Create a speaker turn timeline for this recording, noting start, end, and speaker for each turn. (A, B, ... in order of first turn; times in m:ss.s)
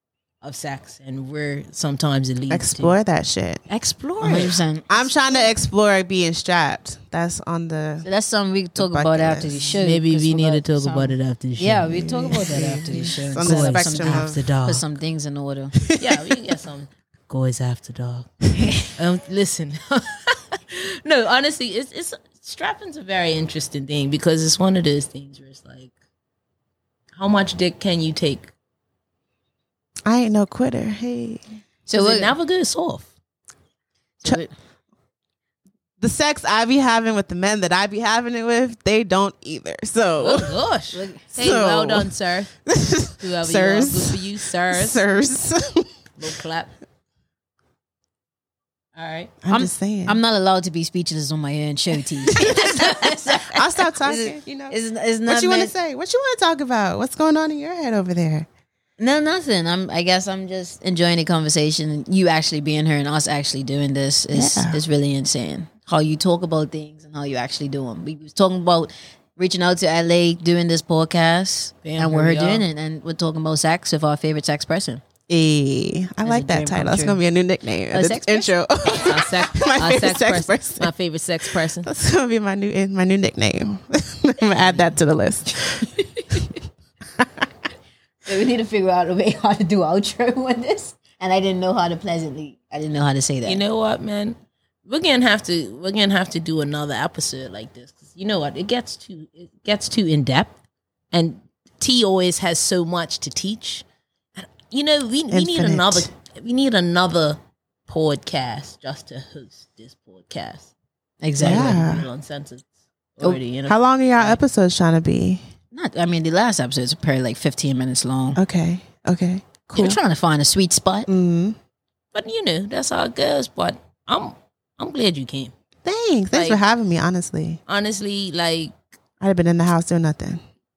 0:00.4-0:03.0 A
0:02.5-0:03.6 B
0:03.7-0:04.6 A
0:04.2-0:04.9 C
0:04.9-0:08.1 B
0:08.0-0:15.8 C
0:08.8-0:09.7 B
0:09.8-0:12.0 A
0:11.9-0:14.5 B
0:13.2-0:14.9 A
0:15.8-0:16.2 B
0:16.0-0:25.9 A
0:27.2-0:28.5 A
0:30.1-0:31.4 B
0:31.9-0:32.3 C
0:32.0-0:33.1 A
0:34.2-0:34.5 C
0:36.0-0:40.6 B
0:40.2-0:42.5 A
0:40.9-0:41.2 C
0:41.3-0:42.1 B
0:42.7-0:45.9 B
0:43.2-0:45.0 A
0:46.2-0:46.7 A
0:49.0-0:49.4 A
0:49.4-0:50.2 B
0:49.5-0:55.7 C
0:52.3-0:52.9 B
0:53.5-0:58.5 B
0:59.0-1:15.0 C
1:04.3-1:04.8 B
1:11.8-1:12.7 A
1:15.3-1:20.9 B
1:16.2-1:17.2 C
1:17.9-1:18.5 C
1:18.9-1:21.9 A
1:21.4-1:25.9 B
1:24.6-1:25.0 A
1:26.2-1:26.5 A
1:28.2-1:33.6 C
1:33.4-1:40.6 A
1:41.1-1:43.8 A
1:44.4-1:50.7 A
1:45.3-1:46.1 B
1:51.2-1:51.8 C
1:51.4-1:54.4 A
1:51.4-1:52.1 B
1:53.7-1:55.4 B
1:55.7-1:58.4 C
1:58.4-2:00.0 B
1:59.7-2:01.1 C
2:01.1-2:01.6 B
2:02.1-2:05.5 A
2:05.8-2:07.6 B
2:06.3-2:06.6 A
2:07.7-2:08.8 A
2:09.2-2:10.4 B